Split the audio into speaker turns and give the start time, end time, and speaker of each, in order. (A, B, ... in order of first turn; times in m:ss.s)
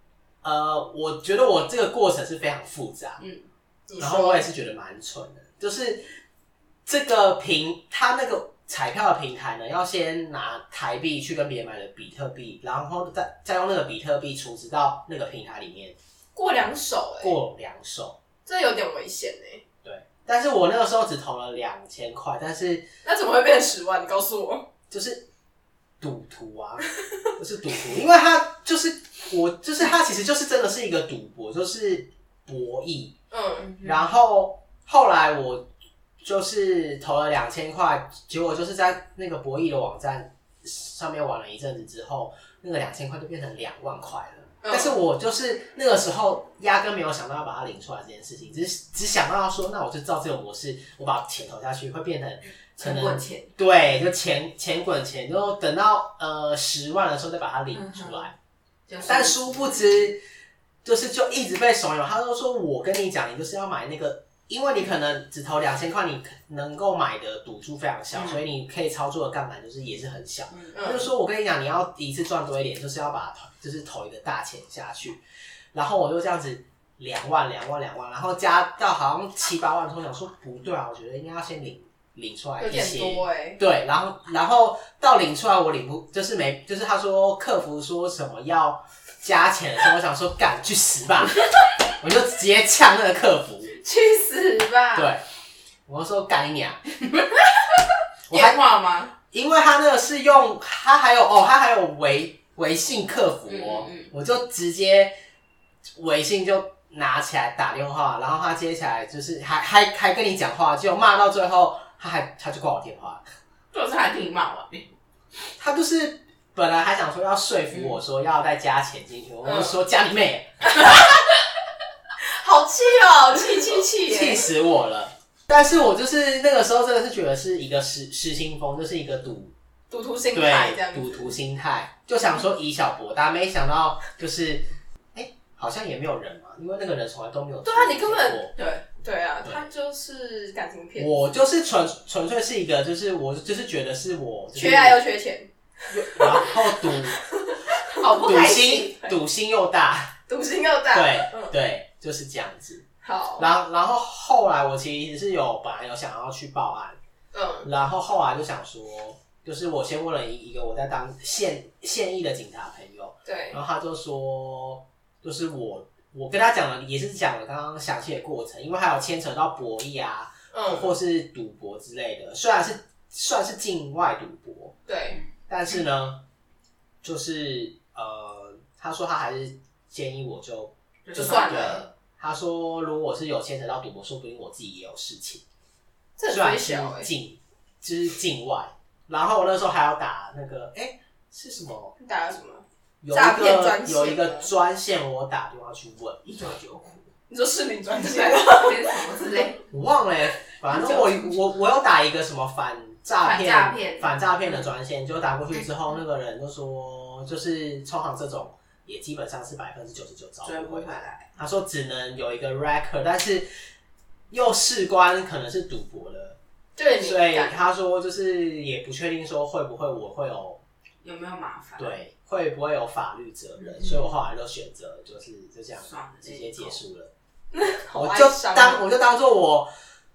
0:00.4-0:03.2 A
0:03.2-0:03.5 B
0:03.9-0:04.5 C
0:04.0-0:06.1 A
0:06.8-0:16.0 A
0:16.3-0:17.4 C
0:17.2-0:18.2 A
0:18.4-0:19.6 C
0:19.8-0:22.9 A
0:23.0-0:24.7 C
0:24.9-0:25.2 A
0:26.0-0:26.8 A
0:27.4-0:33.1 A
0:33.3-0:33.7 C
0:33.6-0:34.1 B
0:33.8-0:35.7 A
0:36.2-0:58.3 A
0:44.6-0:44.9 C
0:52.8-0:53.5 B
0:57.7-0:58.3 B
0:58.9-0:59.9 B
0:59.0-1:00.2 A
1:00.8-1:15.2 A
1:10.5-1:10.8 B
1:10.7-1:11.1 C
1:15.7-1:31.5 A
1:22.6-1:23.6 C
1:32.0-1:33.8 A
1:33.8-1:35.0 C
1:34.9-1:35.2 A
1:35.8-1:36.8 A
1:38.3-1:38.6 A
1:38.3-1:39.1 B
1:39.3-1:45.1 A
1:43.5-1:44.1 B
1:46.0-1:53.2 A
1:53.7-1:54.9 B
1:55.6-2:01.0 A
1:59.4-1:59.8 C
2:00.8-2:01.0 C
2:02.2-2:04.5 C
2:04.0-2:09.5 A
2:09.9-2:11.3 C
2:10.3-2:18.5 A
2:17.6-2:18.5 C
2:18.6-2:18.8 B
2:19.0-2:21.2 C
2:21.0-2:25.0 A
2:24.5-2:28.4 C
2:25.9-2:27.2 A
2:27.9-2:28.9 B
2:28.1-2:30.1 A
2:30.3-2:31.5 C
2:30.9-2:32.8 A
2:33.0-2:33.5 C
2:33.4-2:37.0 A
2:37.3-2:37.7 C
2:37.6-2:54.8 A
2:43.2-2:43.6 C
2:50.5-2:50.9 C
2:54.9-2:55.2 C
2:55.5-2:56.2 A
2:57.0-3:05.4 A
3:01.0-3:01.8 B
3:01.2-3:01.8 C
3:06.2-3:07.1 C
3:06.3-3:11.9 A
3:12.0-3:14.5 C
3:13.0-3:16.2 A
3:16.2-3:17.1 B
3:17.3-3:19.0 C
3:17.9-3:19.6 B
3:19.7-3:33.5 A
3:20.7-3:21.3 B
3:23.2-3:24.1 B
3:30.4-3:31.3 B
3:34.3-3:36.4 A
3:36.8-3:37.5 C
3:37.0-3:40.6 A
3:41.0-3:42.0 B
3:41.8-3:47.1 A
3:43.8-3:44.0 B
3:45.8-3:46.8 B
3:47.5-3:48.8 C
3:47.9-3:49.7 A